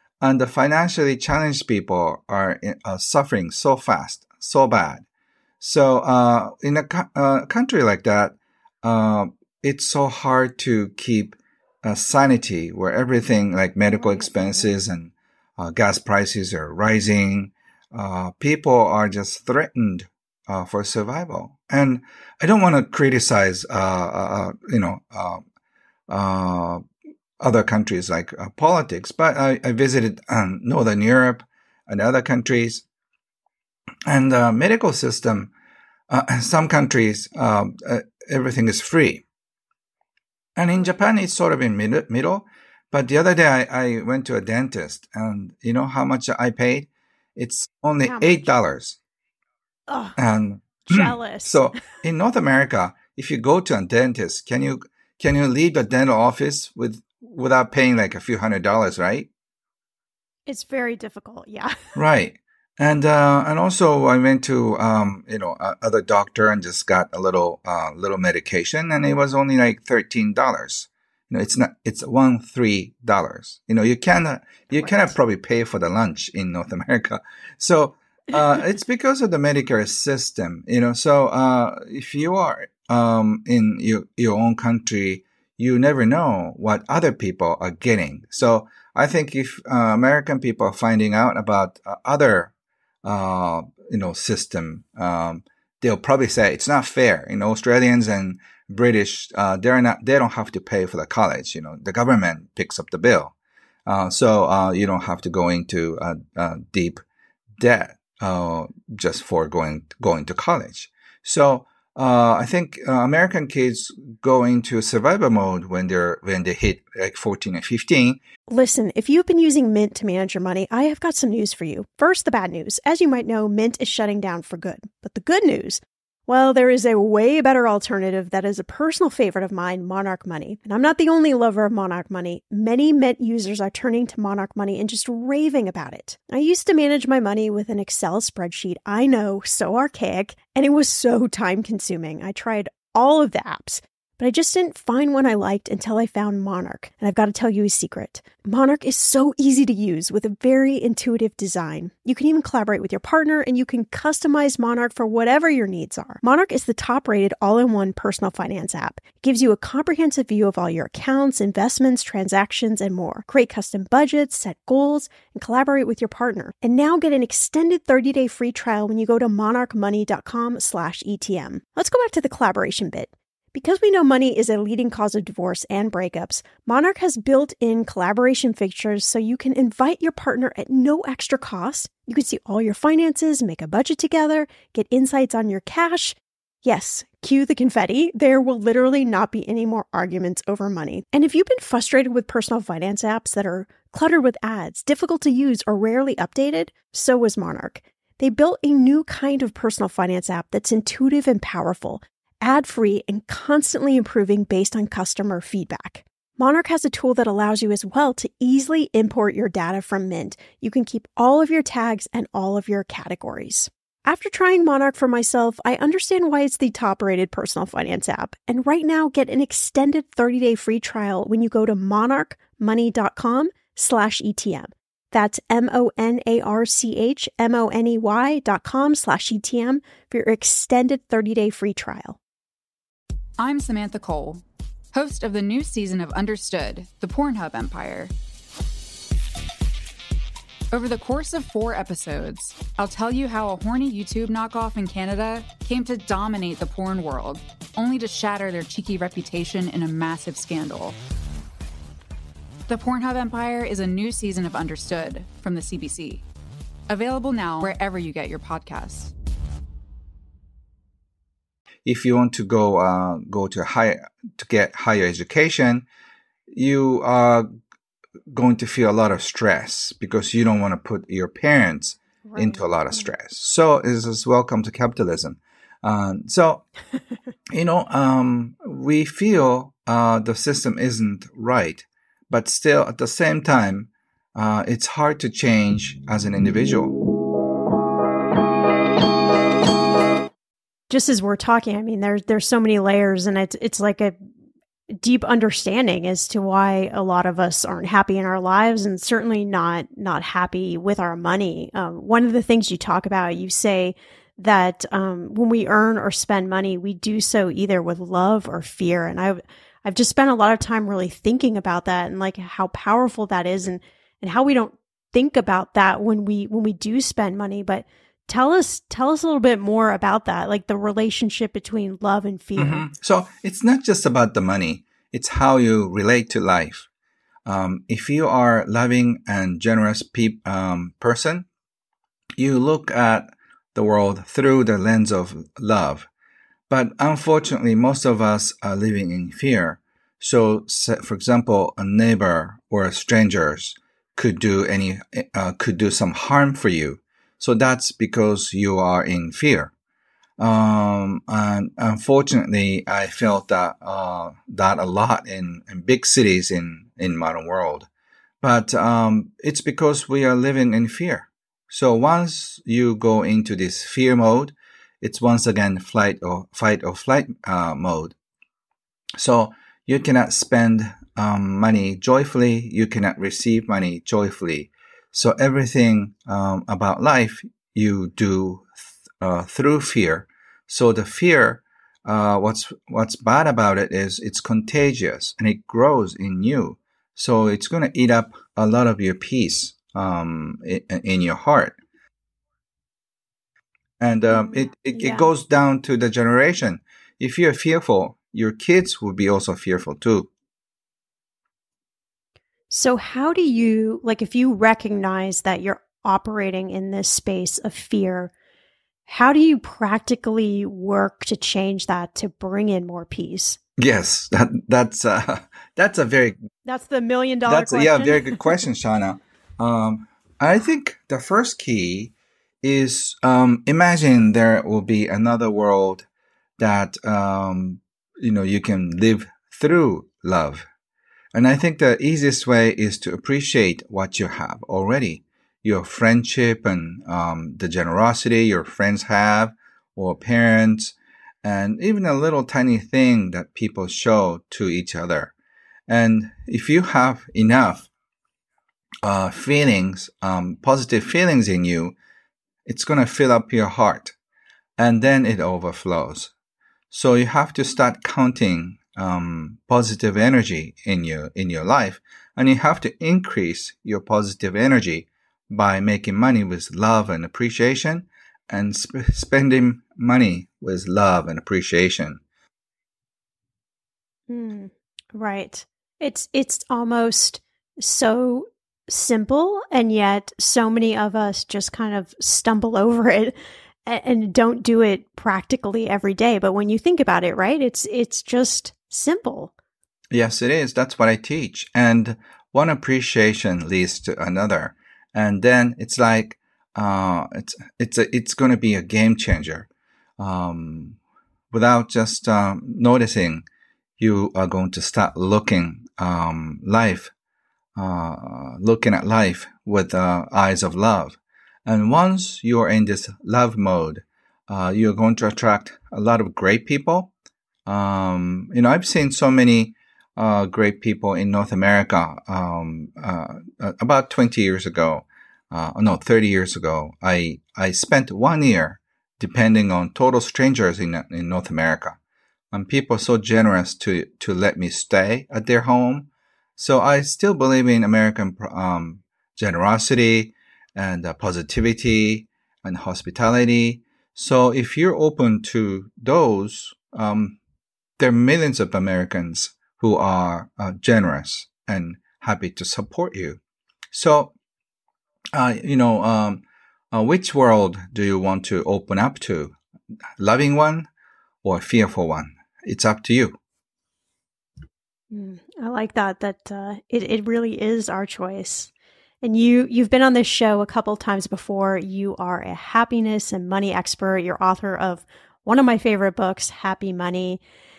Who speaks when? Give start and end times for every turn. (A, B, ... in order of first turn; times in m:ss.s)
0:00.2-0:05.0 A
0:05.6-0:25.4 A
0:14.0-0:14.6 B
0:26.1-0:26.8 A
0:27.4-0:32.8 A
0:34.0-0:35.5 A
0:36.1-0:39.2 A
0:40.6-0:49.0 A
0:48.0-0:48.5 B
0:49.9-0:50.2 B
0:50.2-0:59.3 A
0:50.9-0:51.6 B
1:00.5-1:01.9 B
1:01.9-1:32.5 A
1:33.0-1:43.3 A
1:43.8-1:47.0 A
1:47.6-1:58.2 A
1:58.5-3:52.2 B
3:53.4-3:58.1 C
4:00.7-4:11.0 C
4:12.7-4:16.2 C
4:16.9-4:19.1 C
4:21.8-4:25.8 A
4:26.5-4:27.5 A
4:28.3-4:36.6 A
4:32.3-4:33.1 B
4:37.5-4:47.0 A
4:50.9-4:54.2 B
4:54.9-5:22.8 B
5:22.6-5:26.9 A
5:27.4-5:31.5 A
5:32.4-5:36.1 A
5:36.7-5:49.7 A
5:50.4-5:57.9 A
5:58.4-6:08.1 A
6:09.2-6:31.8 A
6:34.0-6:40.3 A
6:34.3-6:35.3 B
6:42.7-6:48.3 B
6:49.0-6:53.6 B
6:53.8-6:56.4 A
6:56.6-6:58.4 B
6:57.5-7:06.0 A
7:06.6-7:10.6 A
7:11.3-7:25.3 A
7:25.9-7:27.9 A
7:29.0-7:31.9 A
7:32.6-7:34.1 A
7:34.8-7:36.3 A
7:36.9-7:52.2 A
7:54.3-8:09.5 B
8:10.1-8:19.7 A
8:20.2-8:21.0 A
8:21.5-8:23.4 A
8:24.0-8:27.1 A
8:27.8-8:37.1 A
8:37.6-8:52.0 A
8:52.5-9:07.4 A
9:08.0-9:13.4 A
9:13.9-9:14.3 A
9:15.3-9:19.5 A
9:20.2-9:20.9 A
9:21.4-9:23.4 A
9:25.1-9:28.7 B
9:29.2-9:37.4 B